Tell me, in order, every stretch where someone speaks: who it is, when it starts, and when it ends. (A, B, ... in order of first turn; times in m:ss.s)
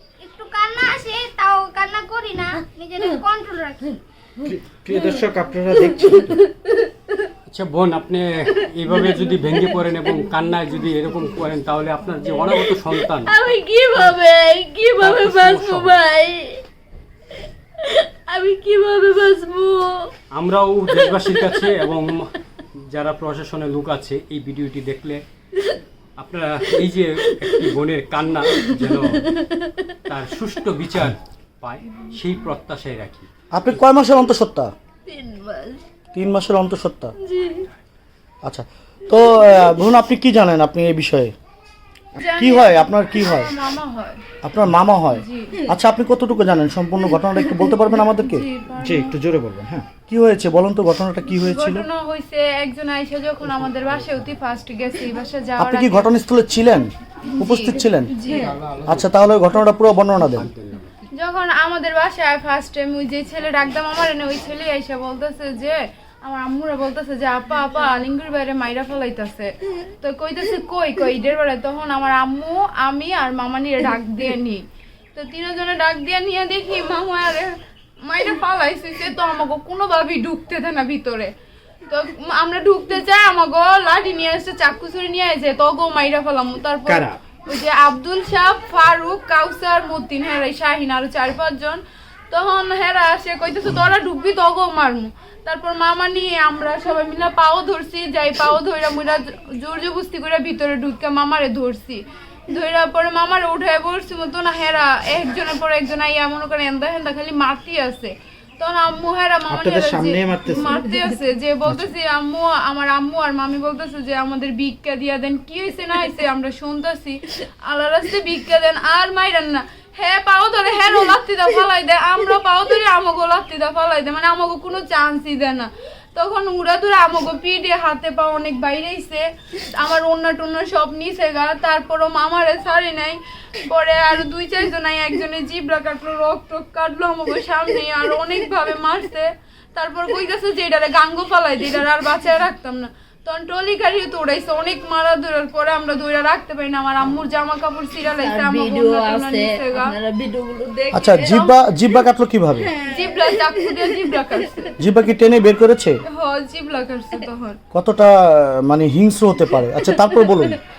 0:00.2-0:03.8 A
0:04.4-0:06.4 B
0:04.9-0:05.2 C
0:05.8-0:07.1 C
0:07.5-0:13.3 D
0:08.9-0:09.8 C
0:12.5-0:16.6 C
0:15.0-0:16.0 D
0:17.8-0:20.0 C
0:20.3-0:22.3 D
0:20.9-0:21.7 C
0:22.9-0:25.2 D
0:26.2-0:29.3 D
0:28.6-0:30.0 C
0:30.1-0:33.3 D
0:33.5-0:34.7 E
0:35.0-0:35.8 C
0:36.1-0:37.1 E
0:37.2-0:37.7 C
0:38.4-0:41.3 E
0:39.4-0:39.7 C
0:42.2-0:44.2 F
0:42.3-0:43.5 E
0:44.4-0:48.4 E
0:45.1-0:45.6 F
0:47.1-0:47.8 C
0:48.2-0:49.2 F
0:48.8-0:49.9 B
0:50.1-0:51.8 E
0:51.4-0:56.1 F
0:55.6-0:58.1 E
0:57.3-0:58.6 F
0:58.4-0:59.1 D
0:58.9-1:00.5 E
1:00.3-1:00.9 D
1:01.1-1:17.6 F
1:18.1-1:21.3 F
1:21.9-2:29.9 F
1:26.9-1:27.2 B
1:49.5-1:50.8 B
2:28.2-2:32.0 C
2:30.9-2:32.7 E
2:32.6-2:34.5 C
2:32.9-2:34.7 F
2:34.8-2:36.0 E
2:36.1-2:37.6 F
2:37.7-2:40.6 E
2:39.8-2:40.6 C